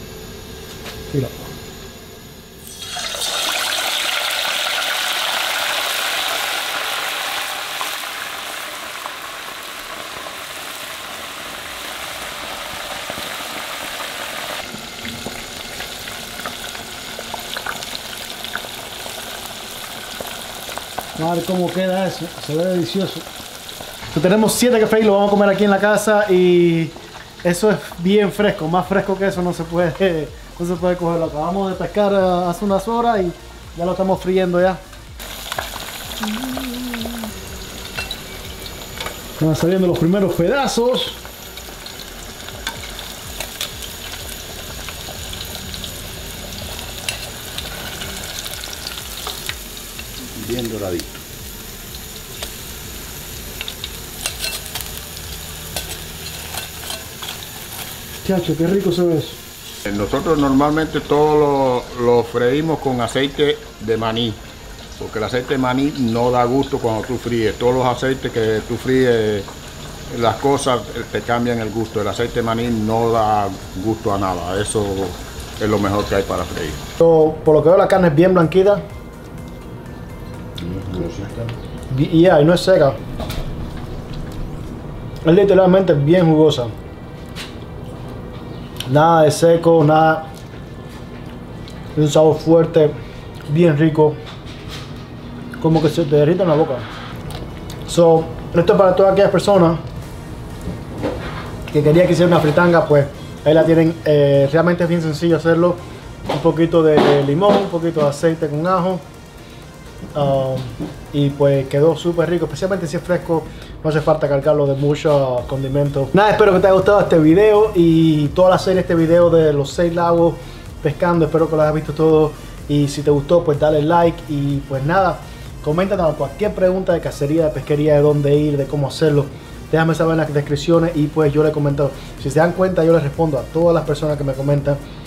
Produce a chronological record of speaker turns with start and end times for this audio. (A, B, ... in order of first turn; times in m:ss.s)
0:01.1-0:01.5 A
0:21.2-0:23.3 A
0:24.1-0:34.8 A
0:36.2-0:37.0 A
0:39.4-0:41.2 A
0:50.3-0:51.1 B
0:58.2-0:59.4 A
0:59.8-1:04.4 B
1:05.0-1:09.5 B
1:10.1-1:16.8 B
1:17.0-1:18.8 A
1:20.6-1:21.5 B
1:21.9-1:23.0 A
1:25.2-1:26.7 A
1:28.8-1:30.3 A
1:31.9-1:33.0 A
1:33.5-1:34.2 A
1:35.6-1:36.9 A
1:37.8-1:39.8 A
1:41.7-1:49.0 A
1:50.1-2:14.8 A